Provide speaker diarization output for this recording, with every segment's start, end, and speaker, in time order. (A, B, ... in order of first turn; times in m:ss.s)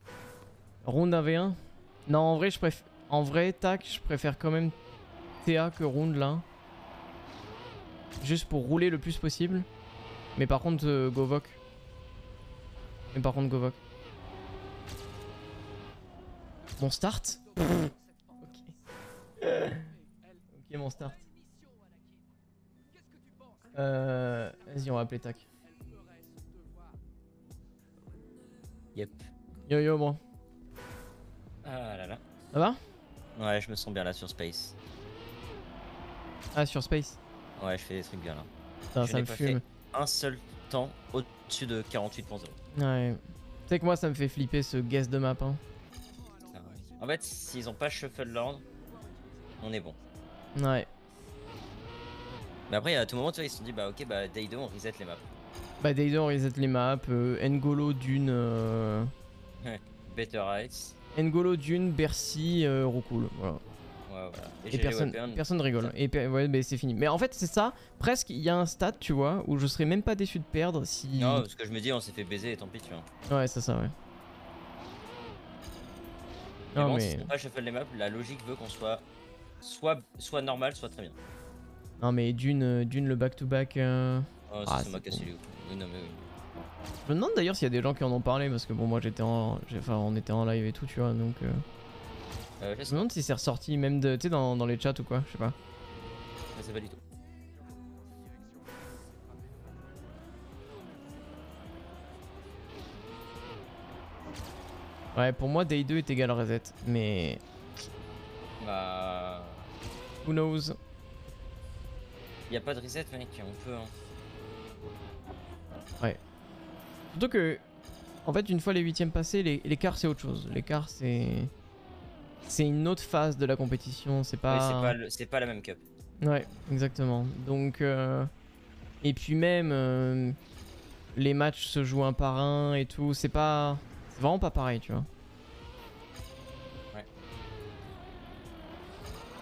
0:00.8-0:04.8 A
0:05.4-0:06.4 A
0:08.2-0:09.7 A
0:10.4-0:11.6 A
0:13.1-0:13.8 A
0:16.8-0:18.7 A
0:19.4-0:19.9 A
0:20.5-0:21.2 A
0:23.7-0:25.4 A
0:28.9-0:29.3 B
0:29.7-0:30.2 A
0:31.6-0:32.2 B
0:32.5-0:32.8 A
0:33.3-0:34.7 B
0:36.5-0:37.2 A
0:37.6-0:38.5 B
0:38.9-0:39.6 A
0:39.0-0:42.6 B
0:42.7-0:45.6 A
0:46.5-0:48.6 B
0:49.6-0:50.0 B
0:50.5-0:50.9 A
0:52.7-0:55.3 B
0:55.8-0:59.1 A
0:59.6-1:01.0 B
1:01.1-1:03.6 A
1:04.1-1:05.9 B
1:04.7-1:11.4 A
1:11.2-1:13.1 B
1:13.3-1:13.9 A
1:16.7-1:17.3 A
1:16.8-1:19.0 B
1:19.6-1:21.2 B
1:22.0-1:25.3 A
1:24.5-1:26.3 B
1:27.0-1:31.6 A
1:32.6-1:33.1 B
1:32.9-1:35.5 A
1:36.5-1:37.0 B
1:45.1-1:47.4 A
1:48.6-1:49.7 B
1:50.2-1:50.8 A
1:52.5-1:53.9 B
1:57.1-1:57.6 A
1:58.2-2:01.5 A
2:02.4-2:05.0 A
2:04.5-2:05.8 B
2:06.2-2:08.3 A
2:09.0-2:10.4 A
2:11.1-2:15.1 A